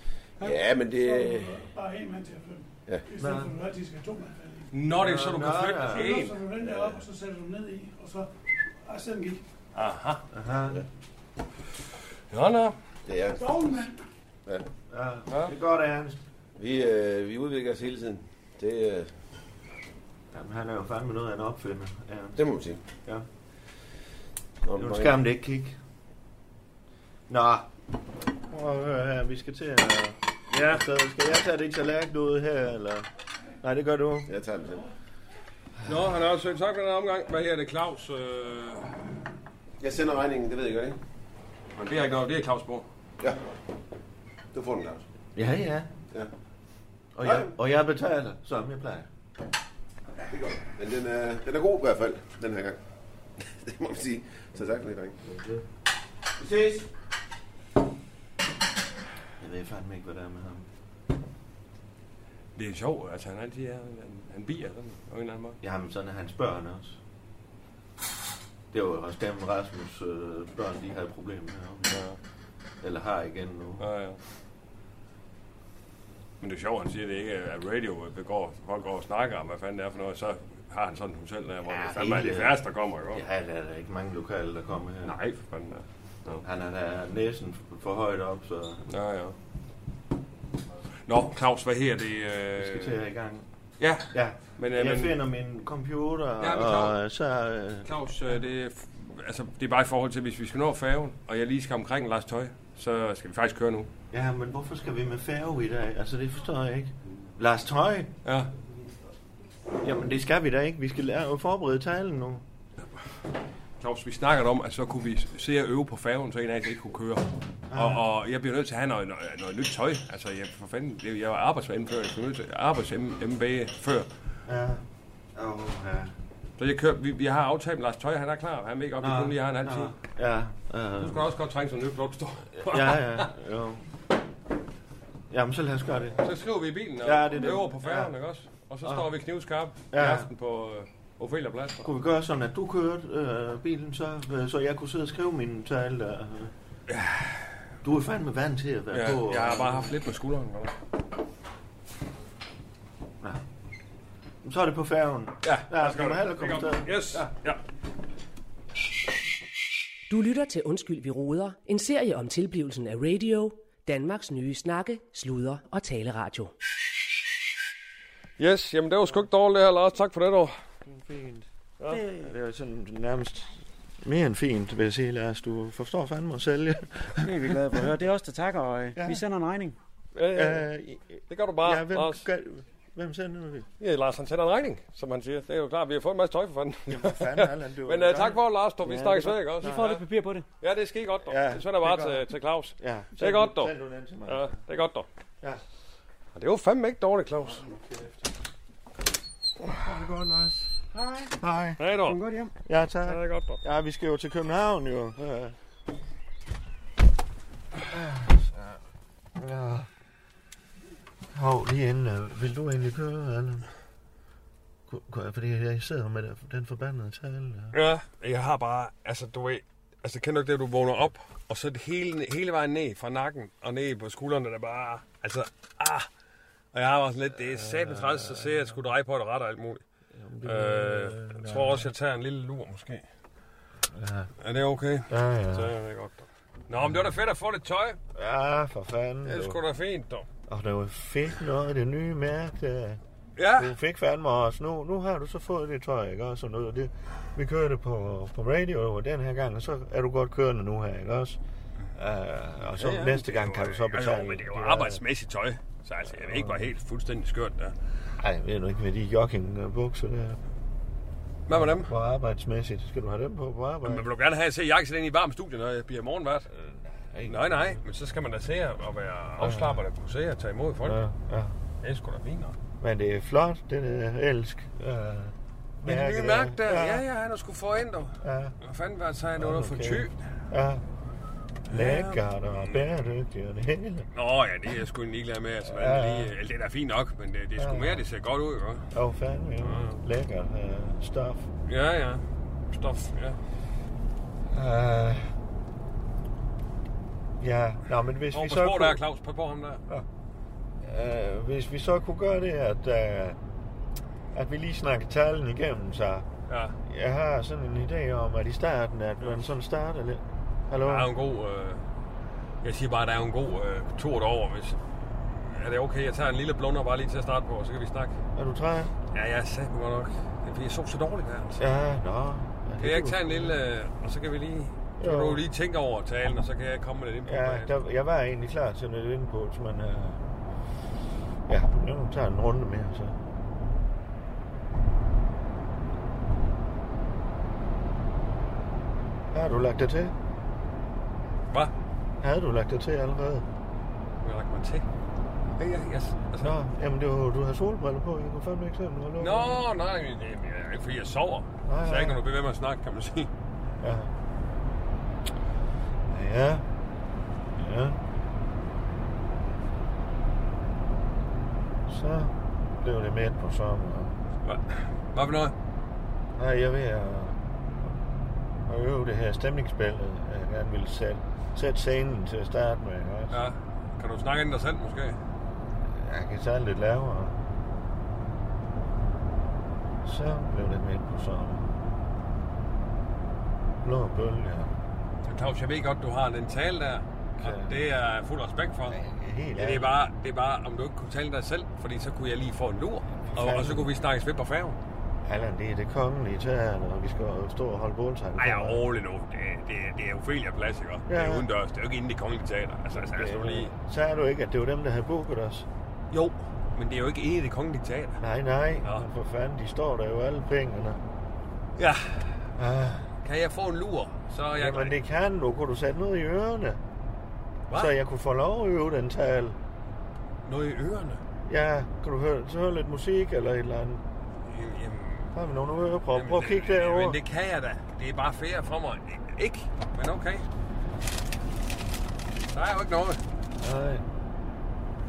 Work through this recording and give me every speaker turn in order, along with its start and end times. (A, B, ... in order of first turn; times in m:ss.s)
0:00.4-0:01.6 A
0:00.4-0:04.7 B
0:03.2-0:03.5 C
0:04.7-0:06.4 D
0:04.9-0:06.2 C
0:05.9-0:08.3 B
0:06.7-0:07.0 A
0:08.8-0:09.4 B
0:09.8-0:10.2 D
0:10.3-0:10.8 C
0:12.3-0:12.8 D
0:13.1-0:13.6 A
0:13.3-0:14.0 B
0:14.9-0:16.2 C
0:16.6-0:19.1 A
0:20.3-0:22.4 C
0:22.4-0:22.8 A
0:24.6-0:25.2 A
0:24.8-0:25.8 C
0:27.3-0:27.7 C
0:28.5-0:33.1 C
0:30.5-0:30.8 D
0:33.6-0:34.3 C
0:34.3-0:34.9 A
0:35.8-0:38.9 D
0:39.8-0:41.0 A
0:41.8-0:42.9 D
0:44.5-0:45.0 A
0:45.4-0:45.9 C
0:47.2-0:49.1 C
0:47.2-0:47.5 A
0:50.3-0:52.8 A
0:53.4-0:55.2 A
0:56.4-0:56.9 A
0:59.4-1:00.7 C
1:02.6-1:05.6 D
1:05.6-1:07.0 C
1:08.7-1:12.0 C
1:11.9-1:12.2 D
1:12.8-1:13.8 C
1:13.8-1:14.2 D
1:16.4-1:23.2 D
1:21.7-1:25.2 C
1:25.0-1:26.4 D
1:26.4-1:28.8 C
1:28.9-1:29.4 D
1:31.1-1:33.0 D
1:32.6-1:33.5 C
1:33.8-1:35.2 D
1:34.1-1:37.9 C
1:36.4-1:37.0 D
1:37.9-1:43.9 D
1:44.1-1:48.1 C
1:48.2-1:48.5 D
1:49.8-1:52.4 C
1:53.8-2:04.1 D
1:57.7-1:58.0 C
2:04.5-2:04.8 C
2:05.4-2:06.1 C
2:06.6-2:10.0 D
2:09.0-2:11.2 C
2:11.0-2:13.3 D
2:12.6-2:13.8 C
2:15.3-2:16.2 C
2:16.2-2:21.9 D
2:17.0-2:18.1 C
2:19.9-2:20.3 C
2:21.8-2:26.5 C
2:26.9-2:27.4 D
2:27.8-2:29.9 C
2:28.9-2:30.7 D
2:34.4-2:37.3 C
2:35.4-2:37.6 D
2:40.1-2:46.5 E
2:48.4-2:50.5 D
2:50.9-2:52.3 F
2:52.2-2:53.5 C
2:54.0-2:57.5 C
2:57.2-2:59.8 F
2:59.0-2:59.2 C
3:00.2-3:00.7 D
3:00.3-3:03.7 C
3:01.3-3:02.3 D
3:03.8-3:10.0 D
3:06.9-3:10.0 C
3:09.6-3:10.5 F
3:10.6-3:13.7 D
3:11.3-3:12.2 C
3:12.8-3:14.6 C
3:14.3-3:15.1 D
3:16.4-3:17.6 D
3:19.8-3:20.8 C
3:21.0-3:21.3 F
3:21.4-3:21.8 C
3:21.8-3:22.2 D
3:22.1-3:22.5 F
3:22.7-3:25.6 C
3:23.1-3:23.6 D
3:27.9-3:28.8 C
3:29.4-3:29.9 C
3:31.3-3:33.7 C
3:34.9-3:37.8 C
3:37.7-3:46.1 D
3:46.7-3:49.8 D
3:47.6-3:48.5 C
3:50.2-3:51.9 C
3:50.4-3:53.0 D
3:53.9-3:54.3 C
3:54.4-3:58.0 D
3:55.1-3:55.7 C
3:58.1-3:59.6 C
3:59.2-4:00.3 D
4:00.5-4:03.0 C
4:03.4-4:03.8 D
4:03.6-4:11.4 C
4:12.0-4:15.0 C
4:12.8-4:17.8 D
4:16.2-4:16.6 C
4:18.2-4:20.4 C
4:21.5-4:21.9 D
4:21.5-4:24.0 C
4:23.8-4:26.5 D
4:26.6-4:27.8 C
4:27.3-4:31.0 D
4:29.4-4:29.8 C
4:30.8-4:31.6 C
4:31.8-4:32.6 D
4:32.8-4:37.0 C
4:35.8-4:40.2 D
4:38.2-4:38.6 C
4:39.4-4:40.8 C
4:41.7-4:44.1 C
4:41.7-4:42.9 D
4:44.1-4:48.9 D
4:45.6-4:46.3 C
4:47.6-4:48.0 C
4:48.9-4:51.5 C
4:49.6-4:50.0 D
4:51.7-4:53.4 D
4:54.5-4:55.3 C
4:57.4-4:59.0 C
4:58.3-4:59.8 D
5:00.8-5:03.4 C
5:04.3-5:06.3 C
5:06.5-5:06.8 D
5:06.9-5:11.1 C
5:10.8-5:11.8 D
5:12.6-5:18.2 D
5:18.4-5:18.9 C
5:19.1-5:21.6 D
5:21.6-5:23.5 C
5:22.8-5:27.7 D
5:25.0-5:25.4 C
5:27.3-5:30.2 C
5:31.5-5:33.2 C
5:39.3-5:40.1 C
5:42.2-5:43.5 C
5:44.2-5:44.8 D
5:45.6-5:46.6 D
5:46.4-5:49.6 C
5:49.2-5:53.3 D
5:51.7-5:52.2 C
5:53.8-5:54.1 C
5:56.1-5:56.6 C
5:57.6-5:58.0 C
6:01.9-6:04.1 C
6:04.4-6:05.5 D
6:06.4-6:07.4 C
6:08.7-6:13.4 C
6:13.3-6:15.2 D
6:16.0-6:17.4 C
6:20.0-6:21.7 C
6:23.8-6:24.7 C
6:25.3-6:29.0 D
6:27.4-6:27.8 C
6:28.9-6:29.9 C
6:29.6-6:34.8 D
6:33.3-6:33.9 C
6:35.2-6:38.8 C
6:38.4-6:43.7 D
6:41.1-6:41.5 C
6:43.0-6:45.7 C
6:46.1-6:48.2 D
6:48.2-6:51.0 C
6:51.8-6:52.4 D
6:52.6-6:53.1 C
6:53.2-6:55.0 D
6:54.6-6:56.8 C
6:57.7-6:57.9 D
6:57.7-6:59.6 C
7:00.4-7:01.2 D
7:01.5-7:04.0 C
7:04.5-7:05.3 D
7:05.3-7:07.2 C
7:06.1-7:10.4 D
7:12.5-7:13.2 D
7:13.6-7:14.0 C